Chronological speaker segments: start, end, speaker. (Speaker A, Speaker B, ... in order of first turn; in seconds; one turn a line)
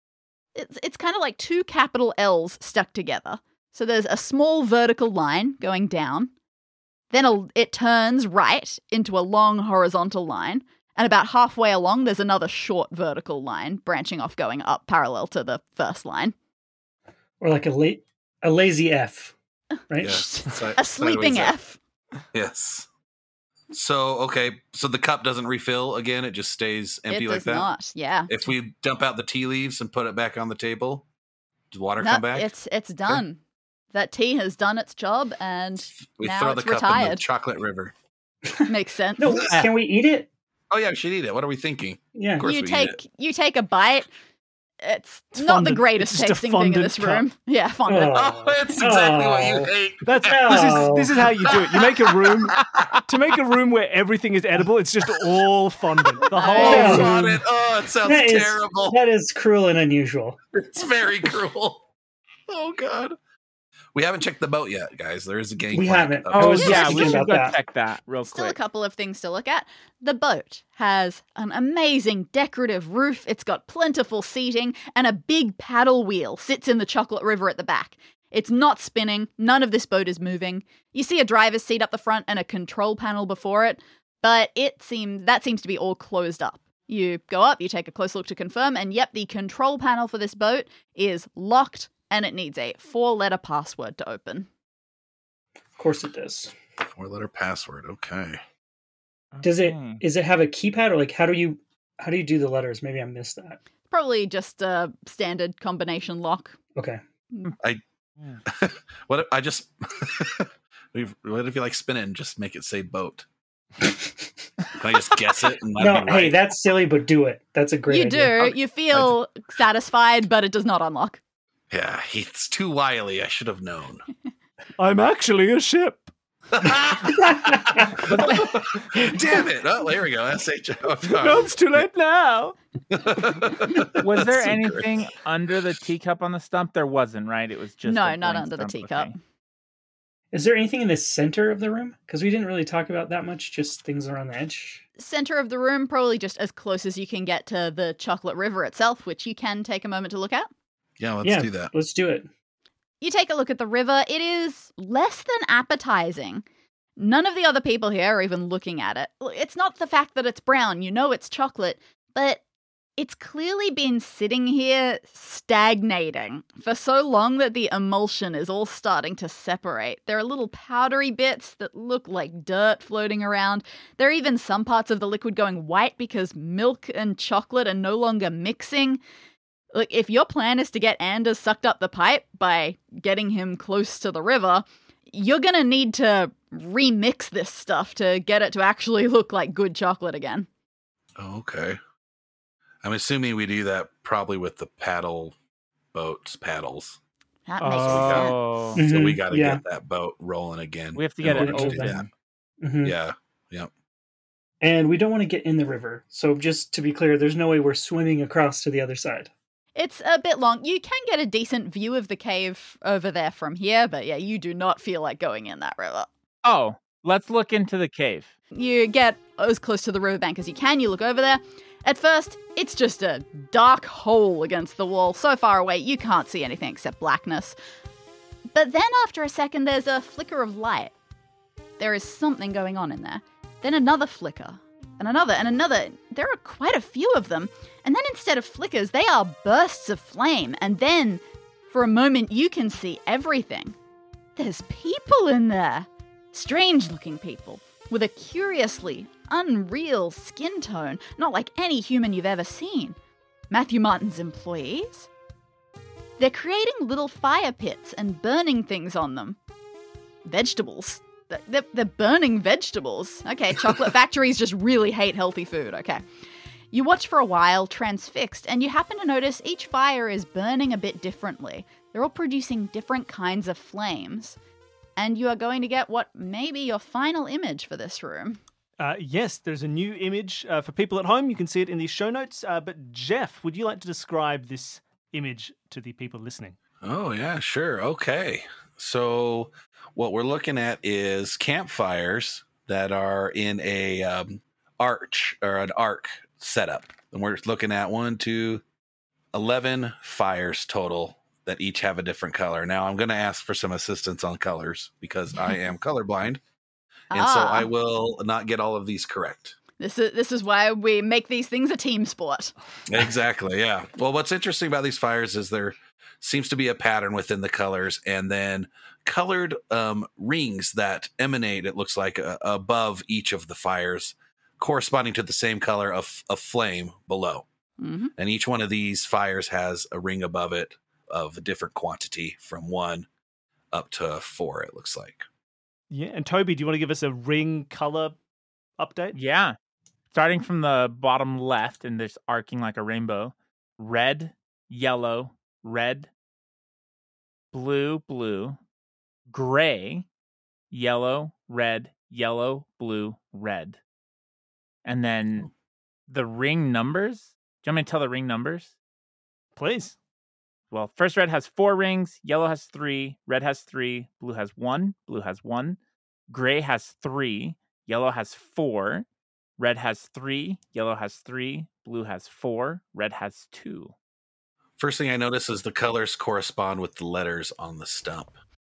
Speaker A: 0.5-6.3
Speaker A: 7.1-16.3
Speaker B: 17.4-19.3
Speaker B: 19.9-20.2
Speaker C: 20.0-21.6
Speaker A: 20.0-21.8
Speaker C: 22.3-22.9
Speaker C: 23.7-27.7
Speaker A: 27.1-28.3
Speaker C: 28.3-31.1
Speaker C: 31.7-32.5
Speaker A: 32.0-33.4
Speaker A: 33.9-37.2
Speaker C: 36.0-37.9
Speaker B: 38.5-40.3
Speaker A: 38.7-39.5
Speaker C: 39.3-39.6
Speaker C: 40.7-43.0
Speaker B: 42.1-42.5
Speaker A: 42.4-44.1
Speaker A: 44.8-48.3
Speaker D: 45.3-47.2
Speaker B: 47.9-49.7
Speaker C: 48.1-50.8
Speaker D: 50.0-57.2
Speaker B: 50.2-51.1
Speaker C: 51.4-53.0
Speaker A: 56.3-57.2
Speaker C: 56.5-59.0
Speaker B: 56.6-57.2
Speaker B: 58.0-60.4
Speaker C: 60.5-61.8
Speaker C: 62.5-63.1
Speaker C: 63.9-67.2
Speaker B: 65.7-67.6
Speaker E: 66.3-68.5
Speaker A: 66.6-67.1
Speaker A: 68.2-94.5
Speaker B: 95.8-96.5
Speaker C: 96.9-98.4
Speaker E: 99.3-100.0
Speaker B: 99.4-103.6
Speaker A: 103.9-106.5
Speaker C: 108.5-113.2
Speaker B: 113.8-114.3
Speaker C: 114.7-116.3
Speaker B: 115.8-118.5
Speaker A: 117.9-121.2
Speaker C: 121.7-124.0
Speaker D: 124.8-126.1
Speaker C: 126.5-131.8
Speaker B: 127.2-127.8
Speaker E: 128.1-128.5
Speaker D: 131.0-132.6
Speaker C: 132.9-134.9
Speaker E: 134.0-139.1
Speaker A: 137.8-139.2
Speaker B: 140.3-144.8
Speaker A: 145.0-150.5
Speaker C: 151.0-151.7
Speaker B: 151.2-152.3
Speaker A: 153.0-156.4
Speaker A: 157.0-162.4
Speaker A: 163.0-179.0
Speaker A: 179.7-190.5
Speaker C: 191.2-191.8
Speaker C: 192.8-195.3
Speaker C: 195.9-197.0
Speaker A: 197.5-198.3
Speaker E: 197.6-198.8
Speaker C: 197.7-202.1
Speaker B: 198.7-199.6
Speaker E: 200.9-202.1
Speaker B: 201.2-202.0
Speaker B: 202.6-202.9
Speaker C: 202.8-203.7
Speaker B: 204.6-209.3
Speaker A: 209.8-216.1
Speaker E: 216.4-218.3
Speaker A: 218.5-227.6
Speaker A: 228.5-230.9
Speaker A: 231.8-243.8
Speaker A: 244.4-252.9
Speaker A: 253.5-255.1
Speaker A: 256.2-259.4
Speaker A: 260.2-266.0
Speaker A: 266.7-274.4
Speaker A: 275.0-278.4
Speaker D: 278.8-286.6
Speaker C: 286.8-298.6
Speaker C: 299.3-306.4
Speaker A: 307.1-307.7
Speaker C: 307.1-309.6
Speaker A: 309.8-312.5
Speaker C: 312.9-327.4
Speaker A: 327.8-328.1
Speaker C: 328.1-333.1
Speaker C: 333.7-335.2
Speaker D: 335.9-338.2
Speaker D: 338.8-339.2
Speaker E: 339.1-339.6
Speaker E: 340.1-346.1
Speaker E: 347.5-348.6
Speaker E: 349.3-350.1
Speaker E: 350.7-353.8
Speaker E: 354.8-355.5
Speaker E: 356.1-358.7
Speaker D: 359.6-359.9
Speaker E: 360.7-365.8
Speaker E: 366.3-369.1
Speaker E: 369.6-373.9
Speaker C: 374.8-378.3